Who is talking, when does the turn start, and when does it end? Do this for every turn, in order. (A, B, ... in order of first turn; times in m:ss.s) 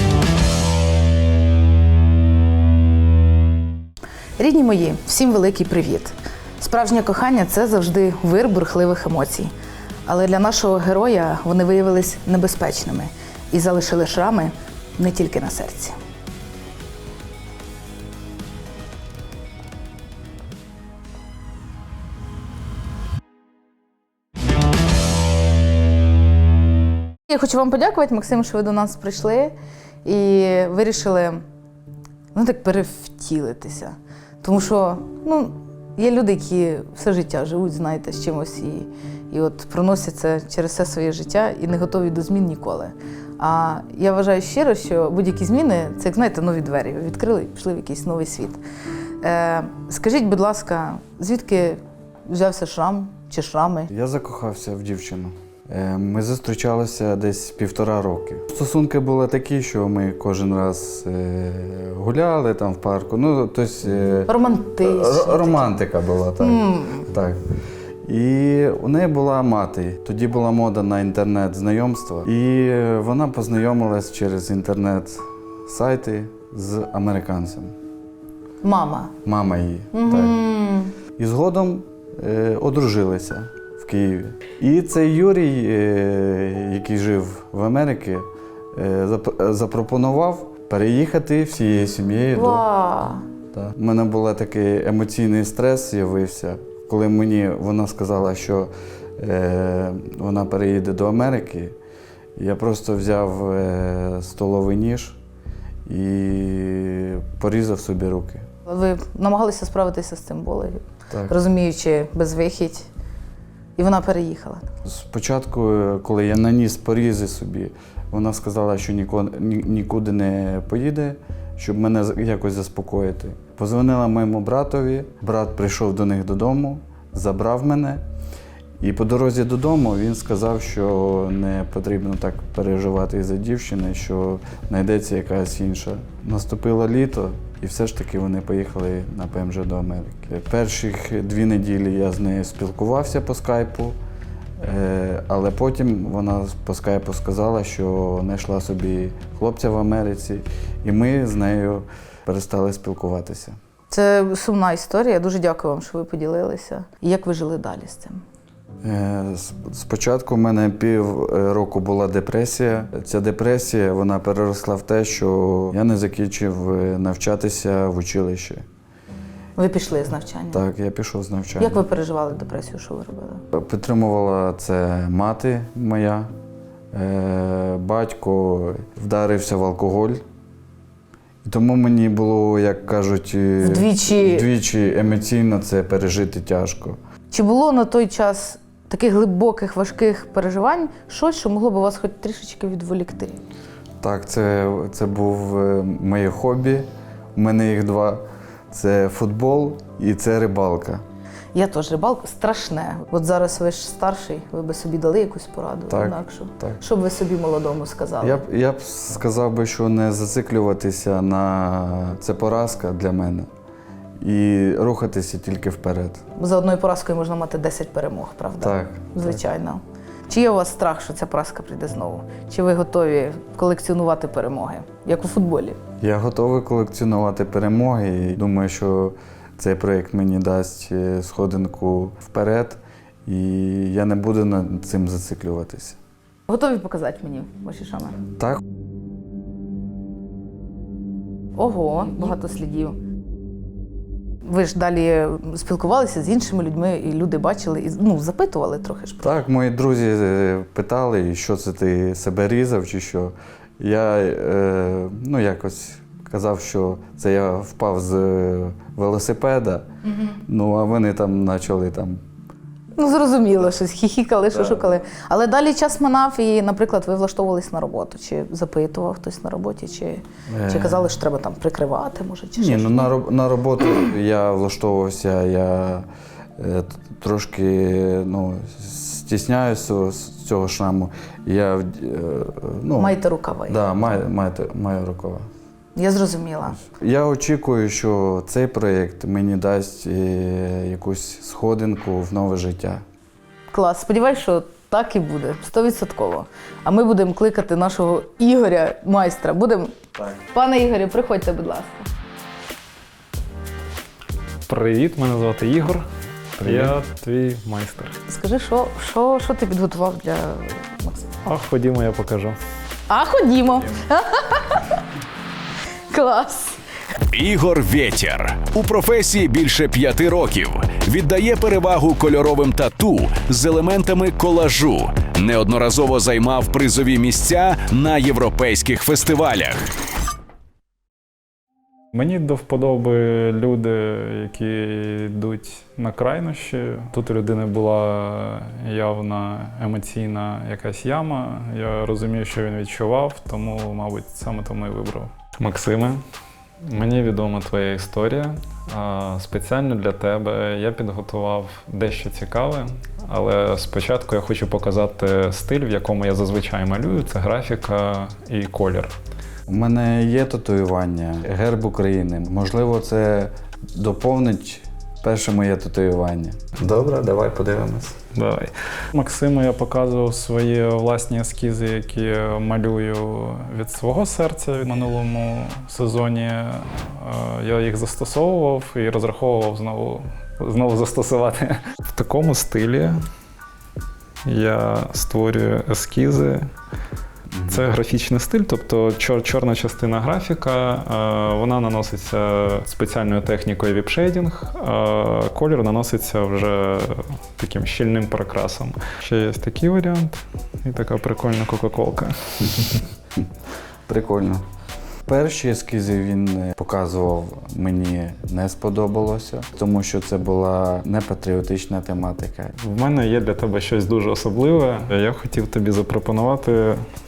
0:04.4-0:09.5 A
0:10.1-0:16.0 A
0:27.3-0:29.5 A
0:30.0-0:31.4 A
0:32.3-0:48.6 A
0:49.2-0:53.9 A
0:53.9-1:07.4 B
1:04.3-1:05.7 A
1:06.4-1:07.0 A
1:08.0-1:17.7 B
1:18.6-1:19.1 A
1:19.2-1:20.4 B
1:19.9-1:20.9 A
1:21.2-1:32.6 B
1:32.3-1:33.2 A
1:33.5-1:41.8 B
1:42.4-1:45.2 B
1:45.9-1:48.4 B
1:48.7-1:52.9 A
1:51.1-1:51.4 B
1:53.8-1:54.7 A
1:54.8-2:08.0 B
2:08.8-2:24.0 B
2:24.6-2:33.6 B
2:33.9-2:38.2 A
2:38.8-2:48.6 B
2:49.6-2:50.6 A
2:50.5-2:51.8 B
2:51.6-2:53.4 A
2:53.5-2:56.3 B
2:56.9-3:00.2 B
3:01.4-3:07.0 B
3:03.6-3:04.5 A
3:07.3-3:13.4 A
3:14.0-3:21.0 B
3:21.5-3:28.4 A
3:25.9-3:26.8 B
3:28.2-3:33.5 B
3:34.2-3:36.2 B
3:36.4-3:45.8 A
3:38.6-3:39.4 B
3:46.0-3:56.0 B
3:56.5-3:58.2 A
4:01.6-4:03.0 A
4:04.4-4:09.3 A
4:09.2-4:22.2 B
4:20.1-4:20.3 A
4:23.0-4:33.1 A
4:24.5-4:24.9 B
4:30.5-4:31.1 B
4:32.6-4:36.1 B
4:36.6-4:43.1 B
4:43.0-4:43.8 A
4:43.7-4:45.4 B
4:46.0-4:46.8 A
4:46.8-4:53.0 B
4:53.7-5:02.1 A
5:04.7-5:06.1 C
5:06.6-5:07.0 B
5:06.6-5:08.2 C
5:08.3-5:11.3 A
5:11.4-5:12.6 C
5:13.1-5:15.0 A
5:16.1-5:16.8 A
5:17.3-5:29.9 D
5:32.1-5:46.2 C
5:46.8-5:59.1 C
5:59.7-6:08.2 B
6:08.3-6:23.2 C
6:24.5-6:26.7 C
6:27.5-6:27.8 B
6:27.7-6:43.0 C
6:44.1-6:44.6 B
6:45.2-6:52.7 B
6:52.8-6:57.0 C